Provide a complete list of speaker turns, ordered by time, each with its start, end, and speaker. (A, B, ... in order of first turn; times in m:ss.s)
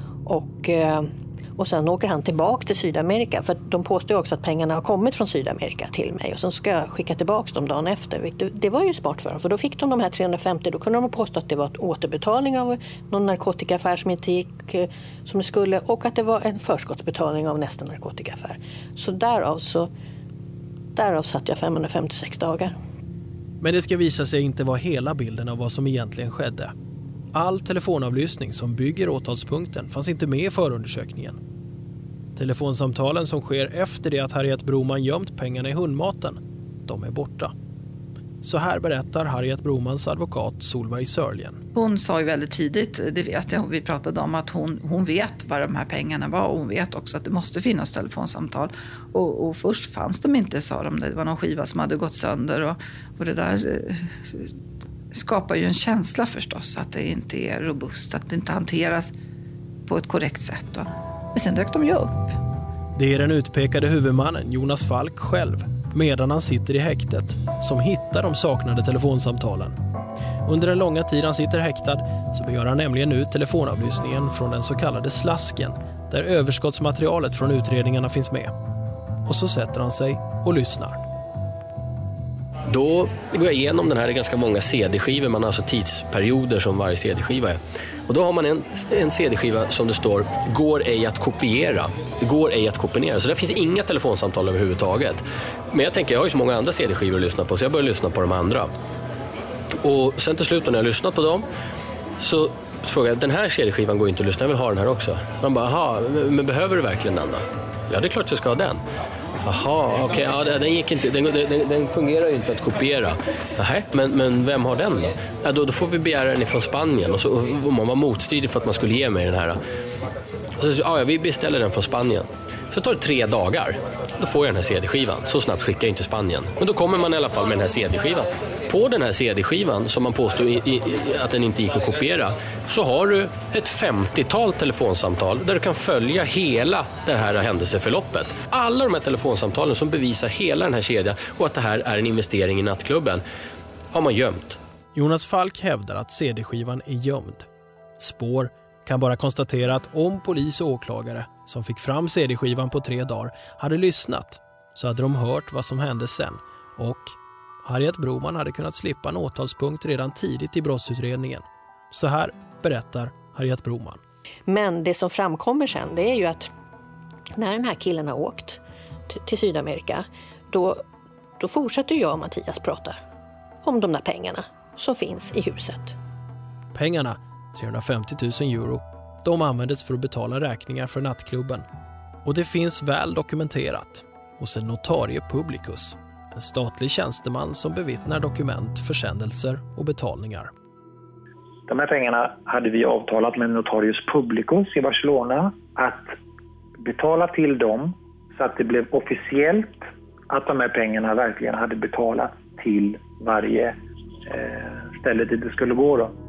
0:00.2-0:19.9 A
0:21.0-0:22.7 A
0:23.6-0:26.7 B
0:27.3-0:31.4 B
0:32.4-0:37.5 B
0:38.4-0:41.6 B
0:41.7-0:54.5 C
0:55.1-0:59.1 C
0:59.9-1:02.3 C
1:03.0-1:09.8 B
1:10.4-1:18.5 B
1:19.2-1:21.0 B
1:22.7-1:38.7 D
1:39.8-1:41.5 D
1:42.2-1:48.8 D
1:49.4-1:59.6 D
2:00.6-2:23.2 D
2:23.9-2:24.6 D
2:24.9-2:27.5 B
2:28.0-2:44.0 B
2:44.5-2:46.5 A
2:47.4-2:50.8 A
2:51.4-2:53.0 A
2:53.6-2:55.9 A
2:56.7-3:01.6 B
3:02.2-3:10.5 B
3:11.7-3:16.2 E
3:16.8-3:23.7 E
3:24.3-3:26.1 E